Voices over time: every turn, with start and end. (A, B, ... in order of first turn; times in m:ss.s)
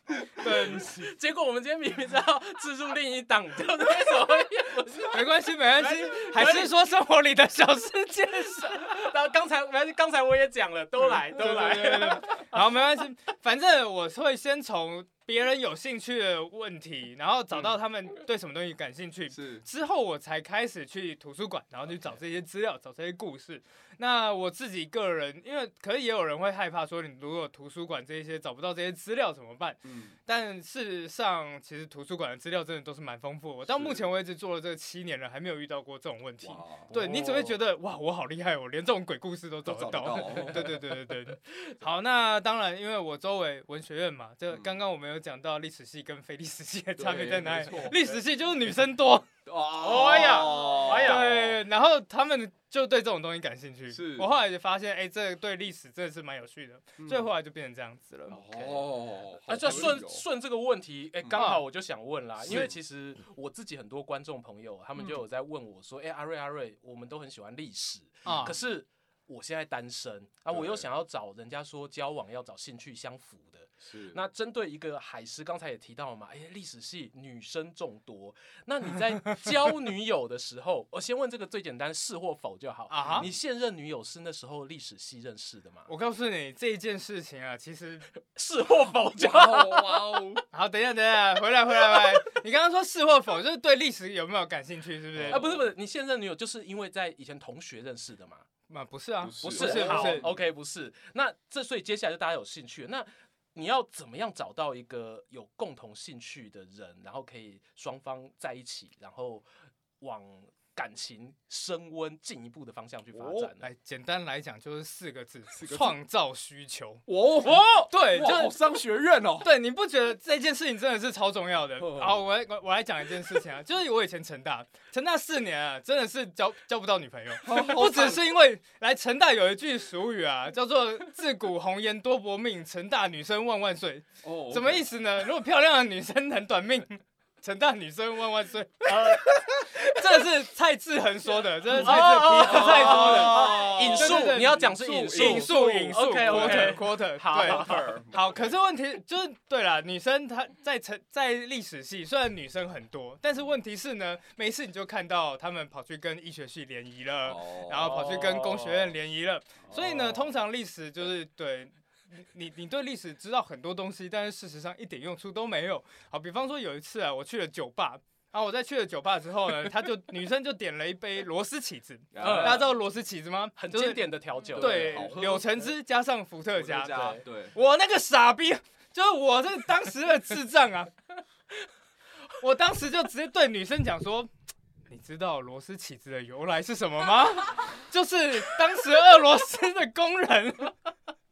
0:00.4-0:01.1 A
0:00.6-0:06.7 B
0:05.1-0:08.9 A
0:08.6-0:12.3 B
0:11.1-0:49.3 A
0:19.3-0:19.6 C
0:29.8-0:30.2 C
0:33.7-0:34.1 C
0:36.4-0:37.6 C
0:39.6-0:40.8 C
0:47.0-0:48.0 C
0:49.4-0:51.5 C
0:49.8-0:51.5 B
0:50.5-0:58.4 A
0:53.9-0:54.3 C
0:57.0-0:57.3 C
0:58.3-1:00.2 C
0:59.5-1:25.9 B
1:01.2-1:01.4 C
1:01.3-1:01.6 A
1:02.4-1:02.7 C
1:08.2-1:08.5 A
1:08.3-1:08.6 C
1:10.5-1:10.9 C
1:13.8-1:14.2 C
1:22.9-1:23.3 A
1:23.1-1:23.4 C
1:25.9-1:28.1 A
1:28.3-1:30.3 B
1:29.2-1:30.4 C
1:30.5-1:35.4 A
1:35.1-1:35.7 C
1:35.3-1:38.4 B
1:38.7-1:40.3 A
1:39.2-1:40.4 C
1:39.4-1:49.4 B
1:50.0-1:53.7 B
1:53.1-1:53.5 C
1:53.6-1:57.0 A
1:55.5-1:56.0 C
1:57.1-1:59.5 C
1:57.4-1:58.4 B
1:57.9-1:58.5 A
1:59.4-3:00.9 A
2:01.8-2:02.2 C
2:07.4-2:08.3 C
2:14.2-2:14.9 C
2:21.7-2:27.9 B
2:21.8-2:28.6 C
2:37.2-2:38.3 C
2:37.8-2:38.9 B
2:39.7-2:40.2 C
2:52.1-2:52.7 C
2:52.2-2:52.7 B
2:53.6-2:55.1 B
2:54.5-2:55.7 C
2:56.5-2:57.6 C
2:56.9-2:57.2 B
3:02.4-3:04.3 A
3:04.9-3:10.7 A